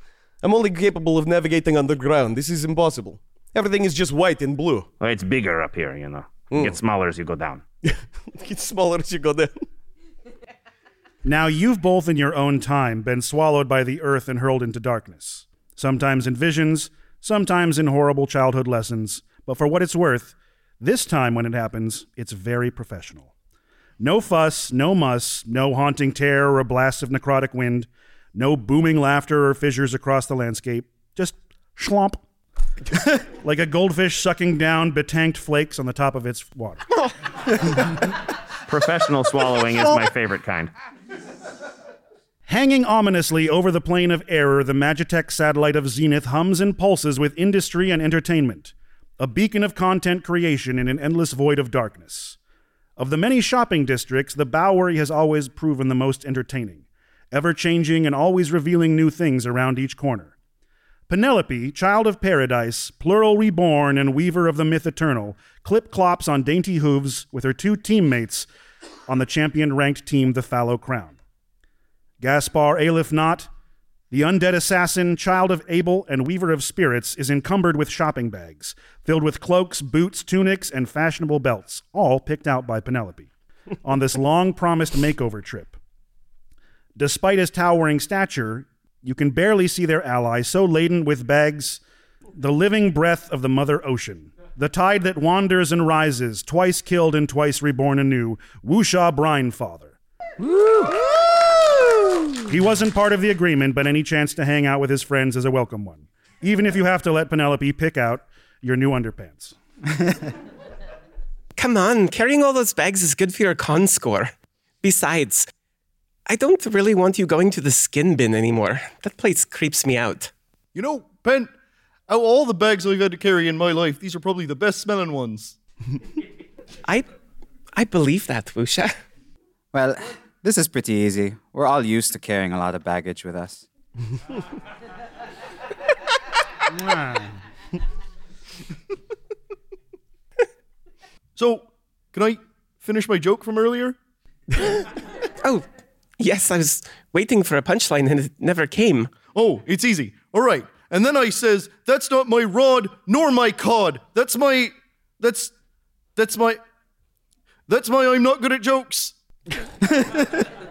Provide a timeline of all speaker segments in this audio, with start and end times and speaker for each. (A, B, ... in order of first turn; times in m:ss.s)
0:00.4-0:04.9 A
0:05.0-0:07.6 B
0:06.5-0:06.8 A
0:07.8-0:09.6 A
0:11.2-0:23.3 C
0:24.0-0:32.2 C
0:33.4-0:36.8 C
0:38.7-0:40.7 B
0:42.5-0:52.4 C
0:53.0-1:00.3 C
1:01.1-1:08.5 C
1:09.1-1:11.2 C
1:12.2-1:13.5 C
1:14.1-1:23.3 C
1:23.8-1:25.8 C
1:27.0-1:31.8 C
1:32.3-1:39.9 C
1:42.5-1:49.5 C
1:51.6-1:54.3 D
1:54.8-1:55.5 D
1:56.3-2:00.3 D
2:00.7-2:01.5 E
2:02.1-2:05.6 E
2:07.7-2:08.9 D
2:09.7-2:13.6 F
2:16.8-2:17.3 C
2:21.4-2:24.0 E
2:26.2-2:29.1 D
2:29.3-2:35.5 E
2:36.2-2:36.6 E
2:37.7-2:39.1 E